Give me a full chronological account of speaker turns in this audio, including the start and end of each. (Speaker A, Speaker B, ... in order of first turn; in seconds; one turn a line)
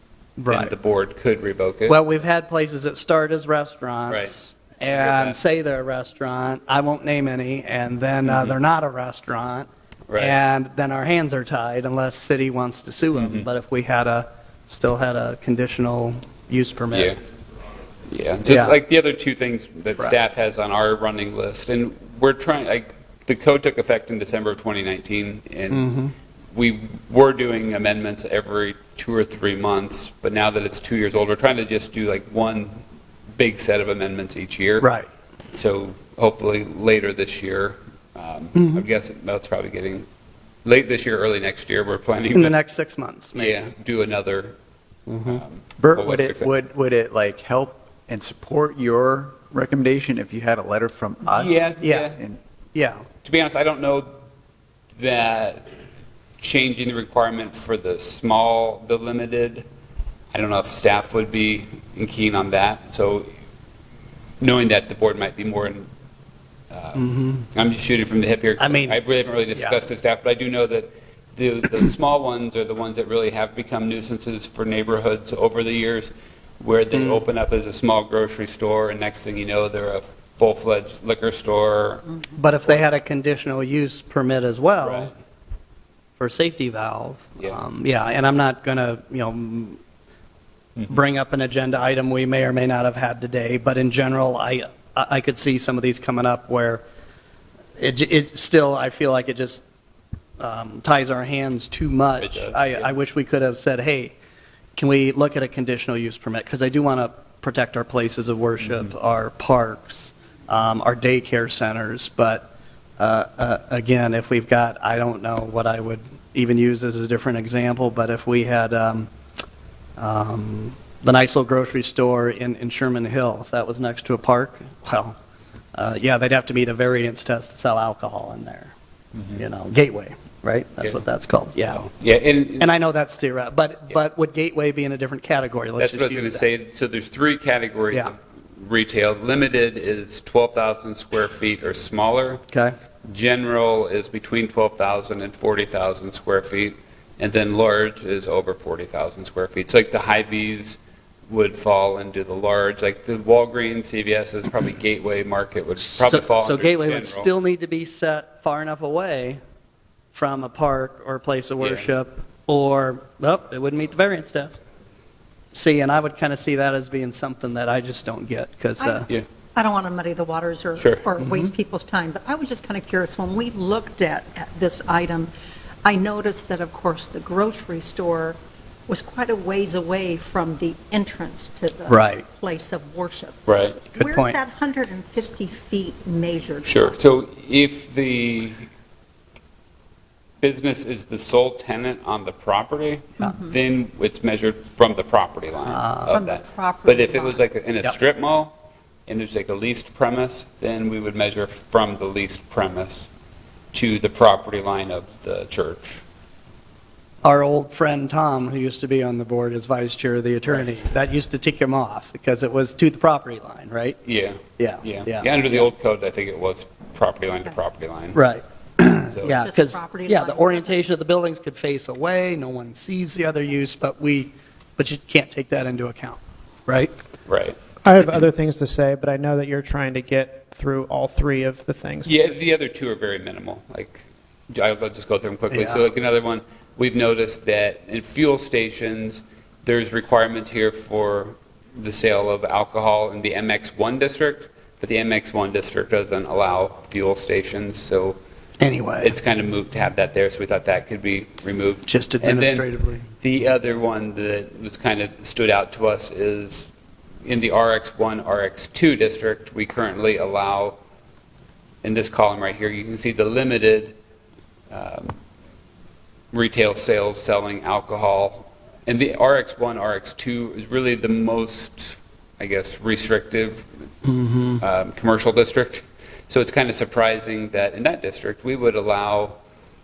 Speaker A: 0.4-0.7
Speaker B: 0.5-2.0
Speaker A: 1.9-17.1
Speaker B: 4.1-5.4
Speaker B: 8.2-8.5
Speaker B: 10.1-10.4
Speaker B: 13.1-13.5
Speaker B: 16.9-17.2
Speaker B: 18.1-25.9
Speaker A: 18.4-18.8
Speaker A: 25.7-26.1
Speaker B: 26.5-32.8
Speaker B: 33.4-34.9
Speaker A: 34.8-35.1
Speaker B: 35.5-40.1
Speaker A: 38.6-38.8
Speaker B: 40.6-42.5
Speaker A: 42.3-43.5
Speaker B: 43.3-44.5
Speaker A: 45.1-45.4
Speaker B: 45.2-46.5
Speaker C: 45.8-52.4
Speaker B: 51.2-52.2
Speaker A: 51.8-52.1
Speaker A: 52.7-53.0
Speaker B: 53.2-54.1
Speaker B: 55.0-55.7
Speaker B: 56.4-59.6
Speaker B: 60.3-63.3
Speaker B: 64.4-65.9
Speaker B: 66.7-82.0
Speaker A: 67.0-67.5
Speaker A: 68.6-69.0
Speaker A: 69.5-69.8
Speaker A: 76.9-77.2
Speaker A: 82.4-85.1
Speaker B: 84.8-85.1
Speaker A: 86.2-89.8
Speaker A: 90.9-96.8
Speaker A: 97.8-99.6
Speaker A: 100.4-104.1
Speaker B: 102.2-102.9
Speaker A: 104.8-119.1
Speaker B: 108.6-108.9
Speaker A: 120.0-125.1
Speaker A: 125.7-128.7
Speaker A: 129.3-131.8
Speaker B: 131.7-132.7
Speaker A: 132.6-136.5
Speaker B: 135.8-142.4
Speaker B: 143.0-157.3
Speaker A: 155.8-159.4
Speaker A: 160.1-164.6
Speaker B: 161.6-161.9
Speaker A: 165.5-169.1
Speaker D: 168.8-169.0
Speaker D: 169.5-175.3
Speaker B: 170.8-171.0
Speaker D: 175.8-187.0
Speaker A: 181.9-182.2
Speaker B: 183.5-183.8
Speaker A: 183.9-184.4
Speaker B: 186.6-188.7
Speaker B: 190.4-198.6
Speaker D: 193.2-193.6
Speaker A: 195.7-196.1
Speaker D: 196.1-197.4
Speaker B: 199.1-203.1
Speaker B: 203.7-206.0
Speaker A: 207.2-214.0
Speaker B: 214.0-218.2
Speaker A: 214.6-215.7
Speaker A: 218.1-226.9
Speaker B: 219.1-219.4
Speaker D: 219.2-220.8
Speaker B: 227.2-227.6
Speaker E: 227.8-232.3
Speaker B: 232.0-248.2
Speaker A: 235.5-235.8
Speaker A: 248.6-249.1
Speaker B: 249.0-256.7
Speaker A: 251.9-253.0
Speaker B: 257.2-260.8
Speaker B: 261.8-263.9
Speaker B: 264.7-265.1
Speaker B: 266.3-273.7
Speaker A: 274.1-274.6
Speaker B: 274.6-279.4